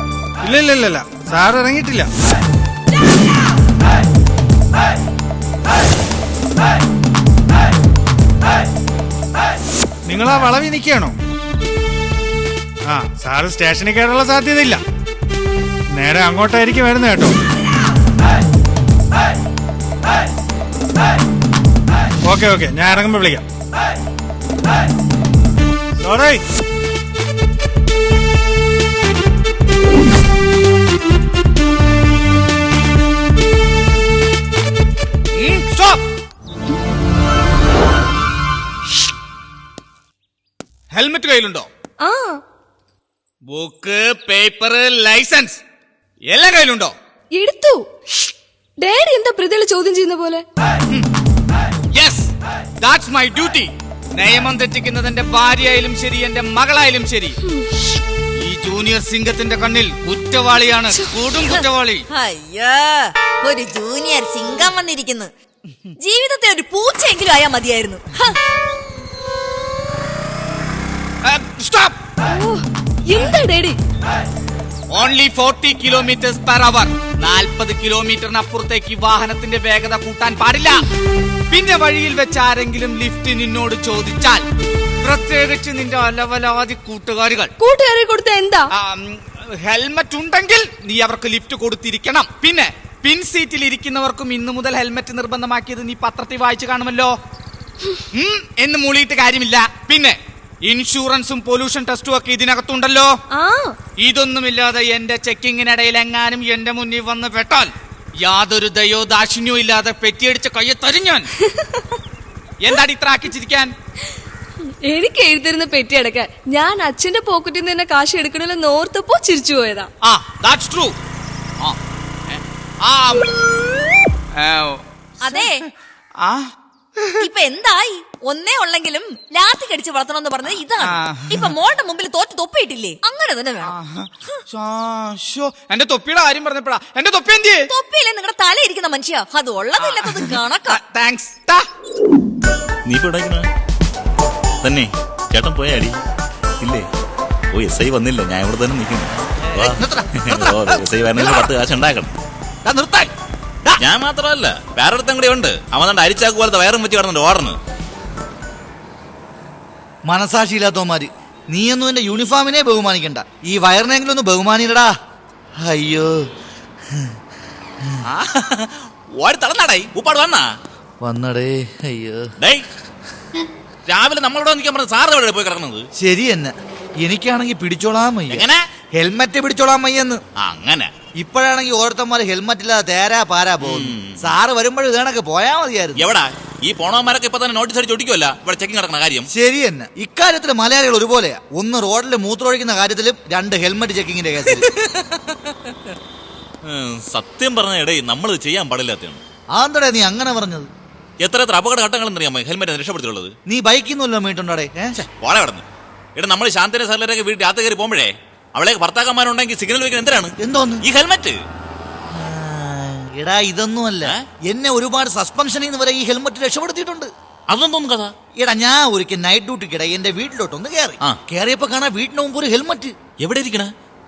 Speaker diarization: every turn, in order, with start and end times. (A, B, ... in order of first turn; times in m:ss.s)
0:00.4-0:02.1 A
0:10.1-0:11.2 A
0:12.8-0:14.8 A
0:15.9-0:17.3 A
0:22.2-0:23.4 A
0:26.0-0:26.4 A
0:35.3-0:36.0 B
0:40.9-0:41.7 B
0:42.0-0:42.4 C
0:43.5-0:45.6 B
0:46.3-0:46.9 B
0:47.3-0:48.3 C
0:48.8-0:50.4 C
0:51.9-0:57.4 B
0:58.4-1:02.0 B
1:00.9-1:01.2 C
1:01.4-1:05.3 D
1:06.0-1:08.4 D
1:11.2-1:12.0 B
1:12.2-1:13.8 C
1:14.9-1:20.9 B
1:21.5-1:24.4 B
1:25.0-1:27.5 B
1:27.6-1:28.7 C
1:28.7-1:37.1 B
1:38.1-1:43.2 B
1:43.3-1:43.8 C
1:44.0-1:51.3 B
1:51.5-1:51.8 C
1:52.6-1:53.7 B
1:54.8-1:59.9 C
2:00.0-2:01.0 B
2:02.3-2:03.3 B
2:04.4-2:04.8 B
2:05.2-2:05.6 D
2:06.2-2:07.2 B
2:07.2-2:13.8 D
2:10.8-2:11.5 B
2:13.6-2:17.7 B
2:17.7-2:20.8 D
2:19.8-2:21.6 B
2:22.9-2:23.5 E
2:24.6-2:26.0 E
2:26.6-2:26.9 E
2:27.5-2:32.1 E
2:29.7-2:31.5 F
2:32.6-2:33.1 F
2:33.8-2:37.6 E
2:40.1-2:44.9 F
2:45.6-2:46.3 F
2:48.0-2:50.5 E
2:51.0-2:52.3 F
2:52.4-2:52.7 E
2:53.9-2:55.9 E
2:56.0-3:00.2 F
2:58.3-2:58.7 E
3:00.4-3:00.9 E
3:01.2-3:06.1 F
3:03.6-3:04.4 E
3:06.0-3:09.3 E
3:09.3-3:14.7 F
3:16.6-3:19.2 E
3:19.5-3:20.7 F
3:21.2-3:23.3 E
3:23.5-3:25.0 F
3:25.0-3:25.6 E
3:26.2-3:31.4 E
3:30.4-3:30.8 F
3:32.1-3:37.1 F
3:37.5-3:38.1 E
3:38.4-3:42.9 F
3:43.2-3:43.7 E